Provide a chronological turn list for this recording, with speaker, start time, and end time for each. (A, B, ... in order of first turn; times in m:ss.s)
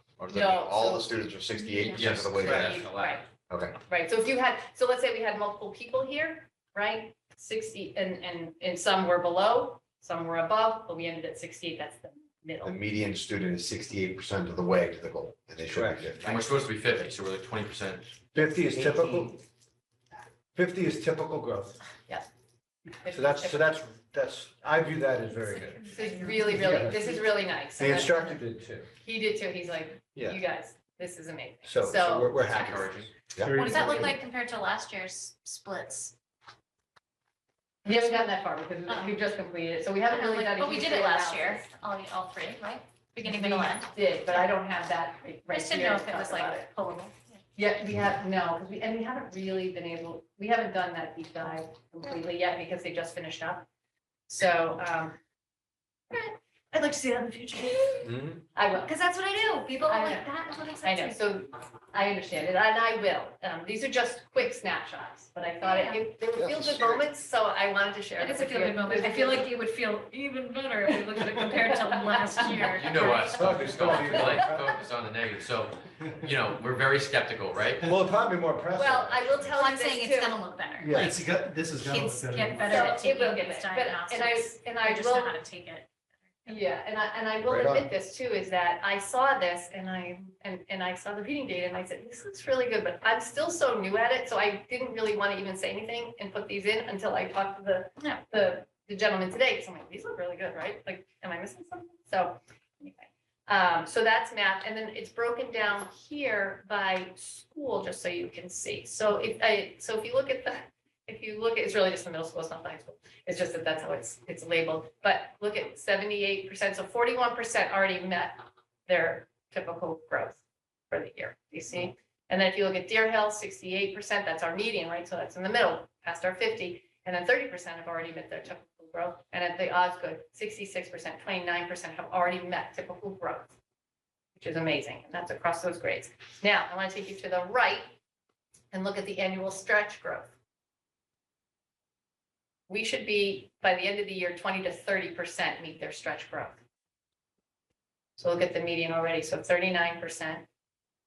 0:00.2-0:02.9 A
0:00.3-0:01.2 B
0:01.8-0:02.7 C
0:02.0-0:03.2 D
0:02.4-0:02.8 E
0:02.8-0:03.3 B
0:03.5-0:03.8 A
0:03.9-0:12.8 B
0:12.6-0:16.5 A
0:15.7-0:16.1 E
0:16.3-0:18.1 D
0:18.3-0:19.4 E
0:20.6-0:21.8 E
0:23.0-0:23.7 B
0:23.1-0:28.9 E
0:25.9-0:28.4 B
0:29.0-0:32.5 B
0:30.2-0:30.4 E
0:31.6-0:34.2 E
0:33.4-0:33.8 F
0:33.6-0:36.1 C
0:37.8-0:41.7 B
0:38.9-0:39.1 C
0:40.1-0:43.9 C
0:43.2-0:46.7 B
0:45.5-0:47.1 C
0:47.6-0:53.6 B
0:54.3-0:55.2 B
0:56.7-0:58.1 C
0:58.0-0:58.4 E
0:58.6-0:58.9 B
0:58.8-1:01.2 C
0:59.9-1:00.3 B
1:00.8-1:09.5 B
1:05.7-1:06.0 C
1:06.3-1:07.0 A
1:08.2-1:14.3 C
1:10.9-1:12.8 B
1:12.8-1:17.8 D
1:13.4-1:14.8 E
1:14.1-1:14.4 B
1:17.8-1:19.5 E
1:18.7-1:20.4 B
1:19.6-1:21.1 C
1:20.8-1:21.4 E
1:21.0-1:23.0 F
1:21.9-1:25.9 C
1:22.6-1:25.4 B
1:26.5-2:13.6 B
1:27.4-1:27.9 E
2:14.4-2:17.9 B
2:18.7-2:20.3 B
2:22.7-2:26.6 B
2:28.2-2:30.4 B